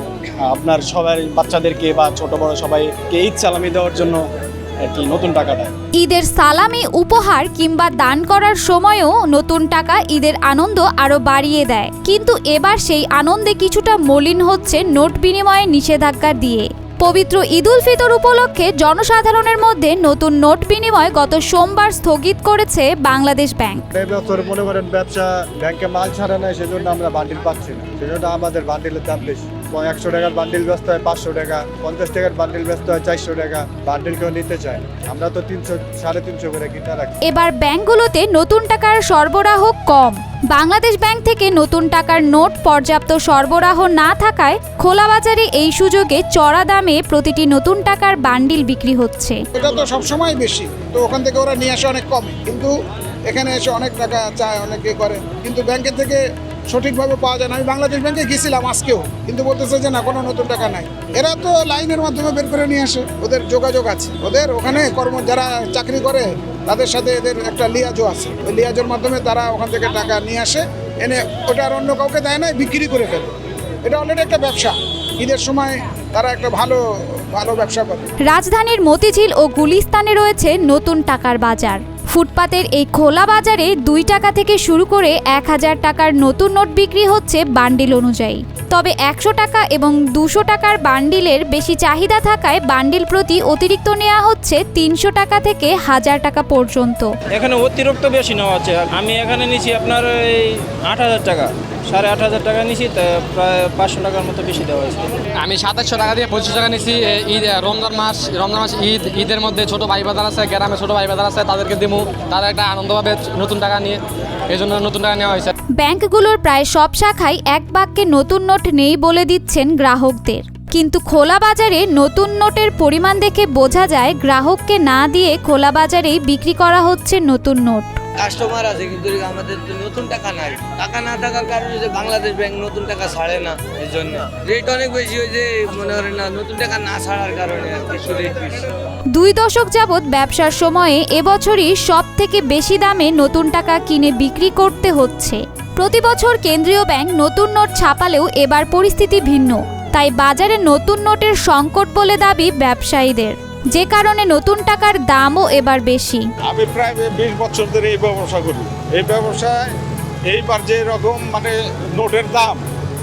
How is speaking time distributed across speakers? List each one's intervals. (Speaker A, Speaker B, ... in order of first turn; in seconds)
Speaker A: 0.5-4.2, 4.9-5.7
Speaker B: 6.0-23.8, 37.2-49.4, 78.2-97.1, 115.8-127.9, 139.1-156.3
Speaker C: 23.9-37.2
Speaker D: 49.5-52.7, 53.3-73.3, 73.8-76.8, 77.3-78.1
Speaker E: 97.3-105.2
Speaker F: 105.3-115.5
Speaker G: 128.2-138.7
Speaker H: 156.4-159.6, 160.3-162.6